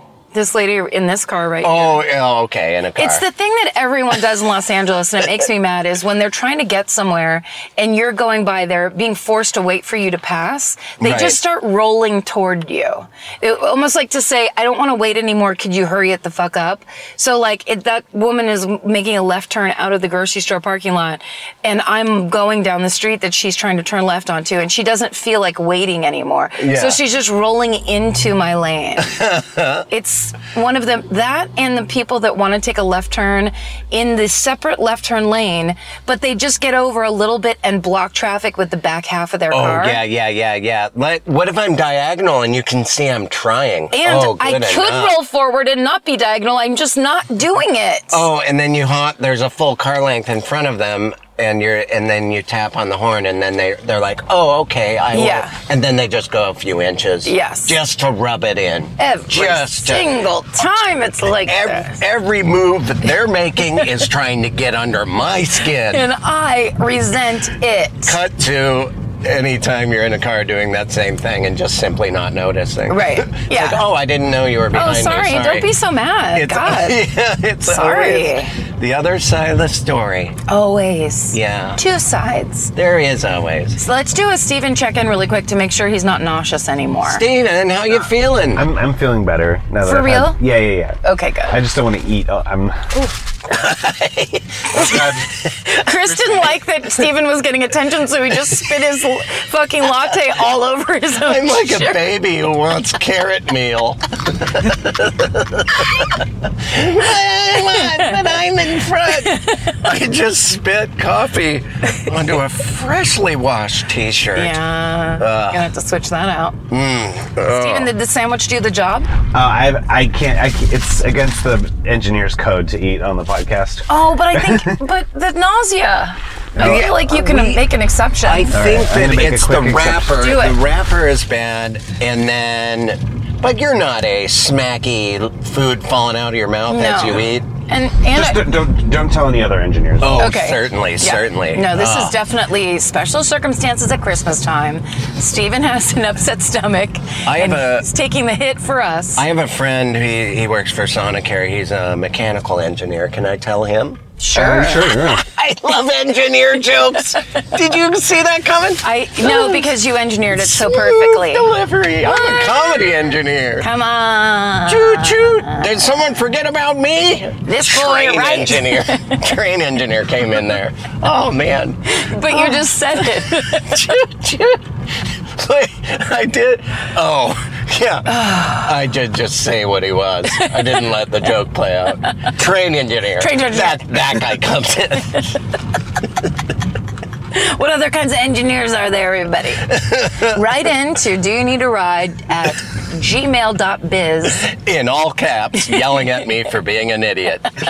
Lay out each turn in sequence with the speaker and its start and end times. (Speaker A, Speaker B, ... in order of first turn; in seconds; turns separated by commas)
Speaker A: 0.3-2.0, Speaker B: 1.6-3.2, Speaker A: 3.0-29.1, Speaker B: 11.0-11.4, Speaker B: 26.6-27.0, Speaker B: 29.0-29.9, Speaker A: 29.9-40.0, Speaker B: 39.5-45.2, Speaker A: 43.9-48.2, Speaker B: 48.1-60.2, Speaker A: 55.1-55.6, Speaker A: 57.2-57.7, Speaker A: 59.0-62.0, Speaker B: 61.3-66.0, Speaker A: 65.9-68.2, Speaker B: 68.0-75.7, Speaker A: 72.9-73.8, Speaker A: 74.7-77.0, Speaker B: 76.3-80.4, Speaker A: 77.6-78.5, Speaker A: 80.5-82.7, Speaker B: 81.3-81.8, Speaker B: 82.7-83.8, Speaker A: 83.8-87.2, Speaker B: 87.0-88.7, Speaker C: 88.5-93.1, Speaker A: 89.8-90.4, Speaker A: 91.0-91.5, Speaker B: 93.5-96.3, Speaker C: 94.8-95.3, Speaker A: 95.6-102.0, Speaker B: 101.2-114.6, Speaker A: 109.2-109.7, Speaker A: 114.3-116.6, Speaker B: 115.2-115.7, Speaker B: 116.7-117.9, Speaker A: 117.5-119.1, Speaker C: 119.3-124.8, Speaker A: 123.9-128.6, Speaker B: 126.5-127.7, Speaker C: 126.6-126.8, Speaker B: 128.2-137.5, Speaker C: 128.5-130.1, Speaker A: 130.2-130.6, Speaker A: 136.7-138.5, Speaker C: 138.1-140.2, Speaker B: 140.0-142.2, Speaker A: 140.1-149.2, Speaker B: 147.2-147.9, Speaker B: 149.2-159.7, Speaker A: 154.2-155.0, Speaker C: 154.3-155.2, Speaker A: 158.8-161.5, Speaker B: 160.3-163.7, Speaker A: 162.0-162.9, Speaker A: 163.6-165.7, Speaker B: 164.7-185.4, Speaker A: 167.4-169.2, Speaker A: 171.9-174.0, Speaker A: 178.1-178.6, Speaker A: 183.2-183.9, Speaker A: 187.3-194.5, Speaker B: 189.7-190.4, Speaker B: 194.4-197.5